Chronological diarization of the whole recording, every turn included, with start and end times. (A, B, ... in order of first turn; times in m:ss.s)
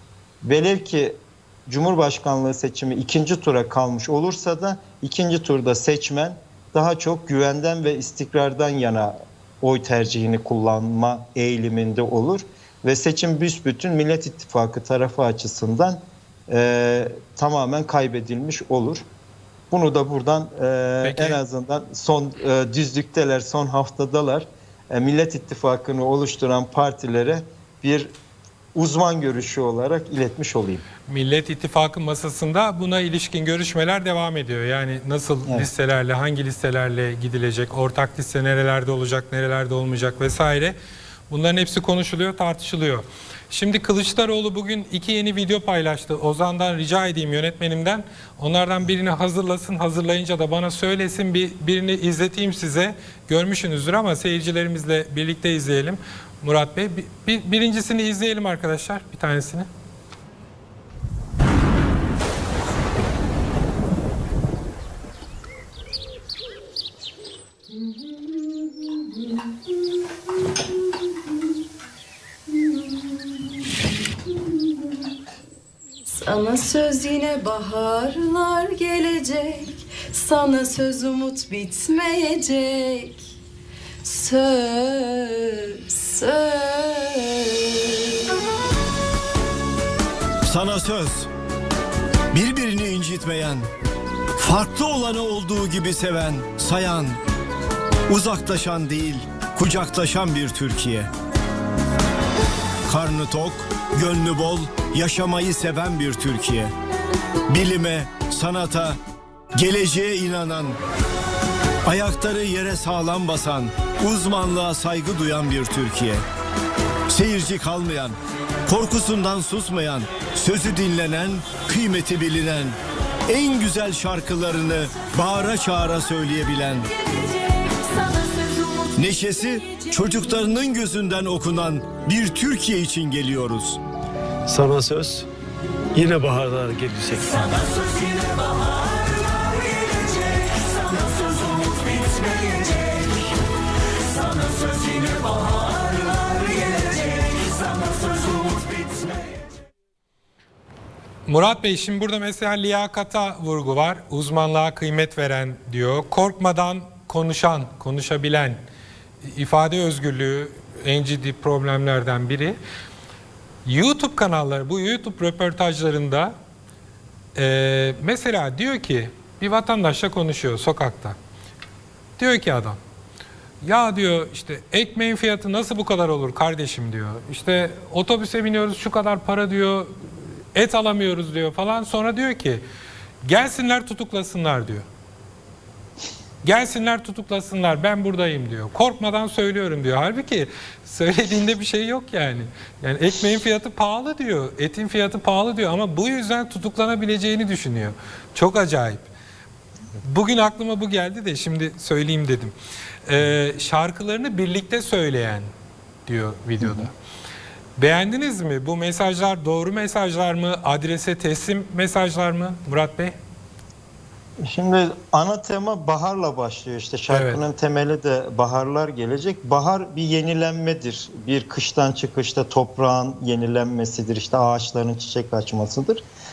0:00.4-0:19.0 A
0:19.7-0:28.1 A
0:21.0-0:21.4 B
0:28.7-0:30.8 A
0:31.0-0:40.7 B
0:41.3-0:59.7 B
1:07.8-1:09.5 C
1:12.5-1:15.1 C
1:16.1-1:23.3 C
1:24.0-1:28.4 C
1:30.4-1:31.3 D
1:32.3-1:33.7 D
1:34.4-1:37.2 D
1:38.1-1:41.1 D
1:42.9-1:46.7 D
1:47.5-1:49.0 D
1:49.5-1:50.8 D
1:51.8-1:56.2 D
1:57.1-1:58.1 D
1:58.7-2:02.8 D
2:03.3-2:06.9 D
2:06.9-2:10.3 C
2:09.0-2:13.8 D
2:14.5-2:15.3 E
2:15.9-2:17.9 E
2:17.9-2:18.7 C
2:20.9-2:23.0 E
2:22.2-2:22.6 C
2:24.4-2:25.3 E
2:31.3-2:38.6 B
2:39.2-2:42.6 B
2:43.6-2:46.3 B
2:47.3-2:51.2 B
2:52.2-2:52.8 B
2:53.6-2:59.9 B
3:00.5-3:02.6 B
3:03.2-3:04.8 B
3:06.4-3:19.1 B
3:20.0-3:22.5 B
3:23.0-3:25.5 B
3:26.1-3:26.9 B
3:26.6-3:26.9 A
3:27.8-3:33.2 B
3:34.4-3:46.0 A
3:37.1-3:37.4 B